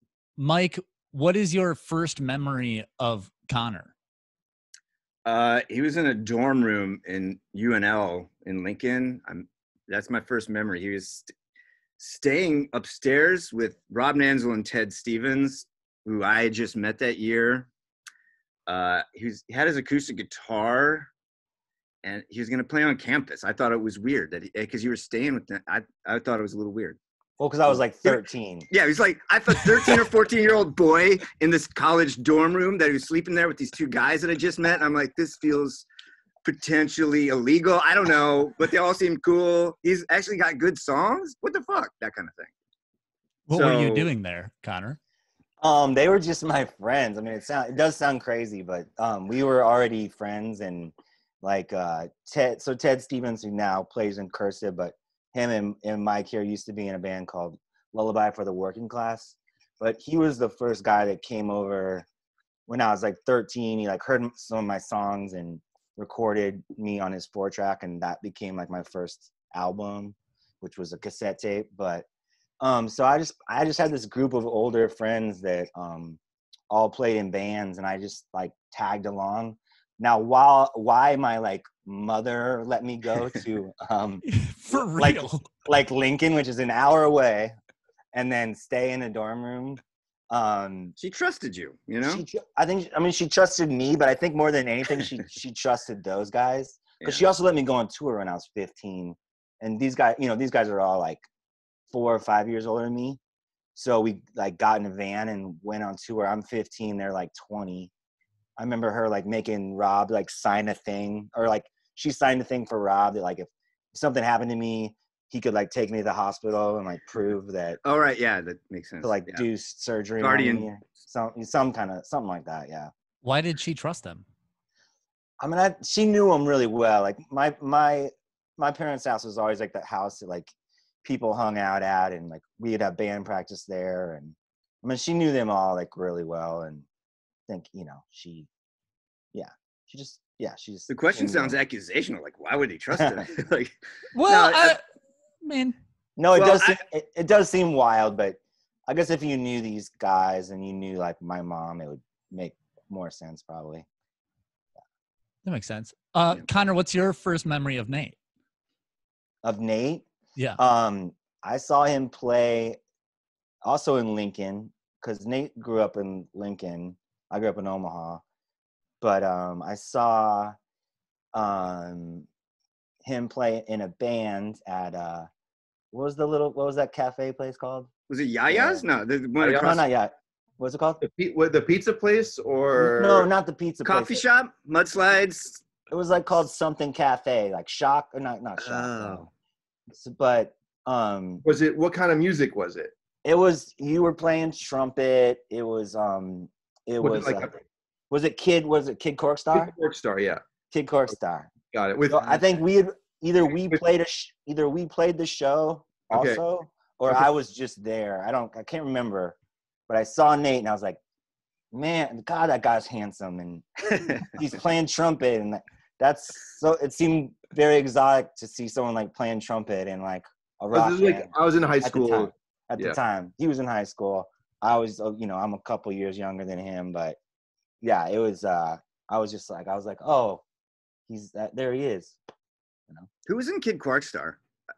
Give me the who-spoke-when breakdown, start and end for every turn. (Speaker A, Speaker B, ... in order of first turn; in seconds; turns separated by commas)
Speaker A: 0.4-3.9, Speaker B: 5.2-11.3, Speaker B: 12.0-17.7, Speaker B: 18.7-21.1, Speaker B: 22.0-27.0, Speaker C: 27.4-28.7, Speaker B: 27.9-35.8, Speaker B: 36.4-42.5, Speaker A: 43.5-45.0, Speaker B: 43.5-44.1, Speaker C: 45.6-62.0, Speaker C: 62.7-72.0, Speaker C: 72.6-76.2, Speaker C: 76.7-87.5, Speaker A: 84.2-85.5, Speaker C: 88.1-90.9, Speaker B: 91.0-92.2, Speaker C: 92.0-101.2, Speaker C: 101.9-103.2, Speaker C: 103.7-107.9, Speaker C: 108.6-117.8, Speaker B: 117.8-119.5, Speaker C: 119.0-122.9, Speaker B: 120.2-120.7, Speaker A: 123.2-124.2, Speaker C: 125.4-130.5, Speaker C: 131.0-136.8, Speaker C: 137.5-138.5, Speaker C: 139.3-141.6, Speaker B: 140.9-144.7, Speaker A: 144.1-144.8, Speaker A: 145.4-145.8, Speaker C: 146.2-153.8, Speaker A: 155.4-158.2, Speaker C: 159.4-160.1, Speaker C: 160.6-162.8, Speaker C: 163.6-168.2, Speaker C: 169.0-170.5, Speaker C: 171.3-172.3, Speaker C: 173.0-175.3, Speaker C: 175.9-177.9, Speaker B: 178.1-179.8, Speaker C: 178.5-178.8, Speaker D: 179.4-179.8, Speaker C: 179.6-181.0, Speaker D: 181.0-183.3, Speaker C: 182.8-184.2, Speaker B: 183.8-185.7, Speaker C: 185.9-189.3, Speaker B: 188.6-189.2, Speaker C: 189.9-191.4, Speaker D: 191.4-192.9, Speaker C: 193.2-197.5, Speaker D: 197.0-197.6, Speaker C: 198.1-199.7, Speaker D: 199.5-200.4, Speaker C: 200.7-201.5, Speaker D: 201.7-202.4, Speaker C: 202.1-209.3, Speaker D: 206.1-206.4, Speaker C: 209.9-211.0, Speaker C: 211.7-227.2, Speaker D: 220.7-223.0, Speaker C: 227.8-230.4, Speaker C: 231.1-232.2, Speaker B: 233.2-234.4